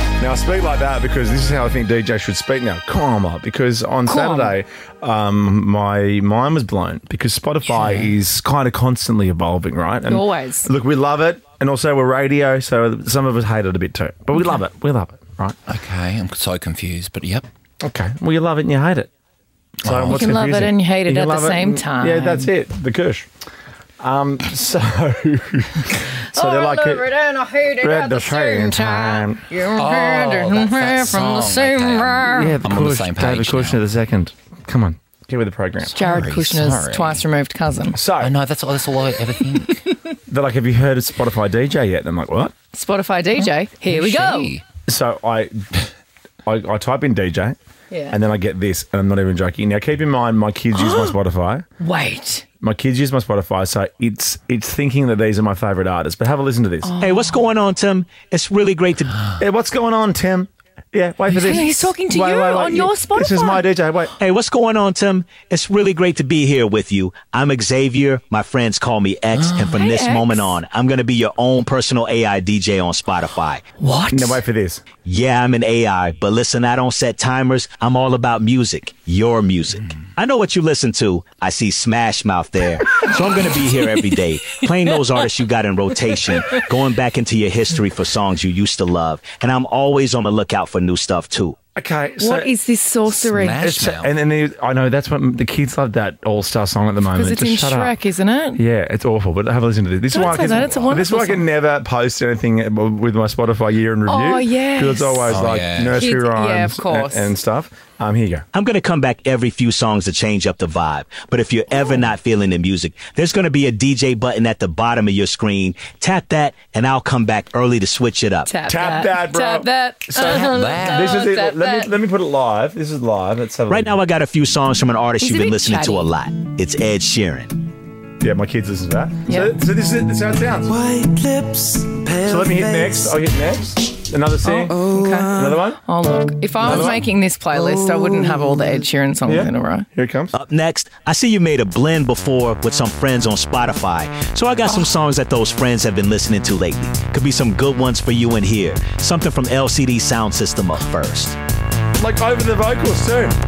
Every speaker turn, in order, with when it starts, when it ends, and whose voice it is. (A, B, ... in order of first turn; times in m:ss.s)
0:00.2-0:15.6 A
0:04.0-0:04.5 B
0:07.7-0:08.1 C
0:10.0-0:10.7 B
0:15.7-0:17.4 C
0:17.8-0:19.1 A
0:19.8-0:23.3 A
0:19.8-0:20.2 C
0:20.1-0:22.5 B
0:24.0-0:27.1 A
0:26.3-0:32.6 B
0:27.8-0:29.4 A
0:29.8-0:33.8 C
0:32.3-0:35.9 A
0:35.8-0:37.2 C
0:35.9-0:38.0 B
0:37.9-0:38.3 A
0:38.2-0:39.8 C
0:40.3-0:42.5 A
0:42.7-0:44.6 B
0:43.9-0:44.6 C
0:44.9-0:45.6 A
0:46.4-0:47.6 A
0:47.9-0:48.2 B
0:48.1-0:51.6 A
0:50.7-0:51.2 B
0:51.8-0:52.4 B
0:52.6-0:57.0 A
0:56.8-0:57.4 B
0:57.0-0:59.2 D
0:59.4-1:04.1 A
1:01.3-1:03.6 B
1:04.2-1:13.6 D
1:09.7-1:10.6 B
1:13.8-1:14.4 B
1:14.1-1:14.8 A
1:15.0-1:31.6 D
1:31.8-1:32.5 A
1:32.2-1:33.6 B
1:33.1-1:34.1 C
1:33.5-1:38.0 A
1:37.1-1:38.6 B
1:38.6-1:48.4 A
1:40.1-1:41.5 B
1:44.1-1:47.3 B
1:45.3-1:46.0 C
1:48.5-1:58.5 D
1:58.5-2:01.9 B
1:58.7-2:04.0 A
2:00.2-2:01.1 C
2:03.7-2:07.6 D
2:05.2-2:06.1 B
2:08.2-2:10.8 A
2:09.3-2:09.5 B
2:10.8-2:13.0 E
2:12.2-2:15.8 A
2:14.4-2:19.9 B
2:15.2-2:15.4 E
2:16.6-2:17.0 A
2:16.7-2:17.0 D
2:19.2-2:20.3 A
2:20.3-2:31.4 D
2:32.0-2:33.3 A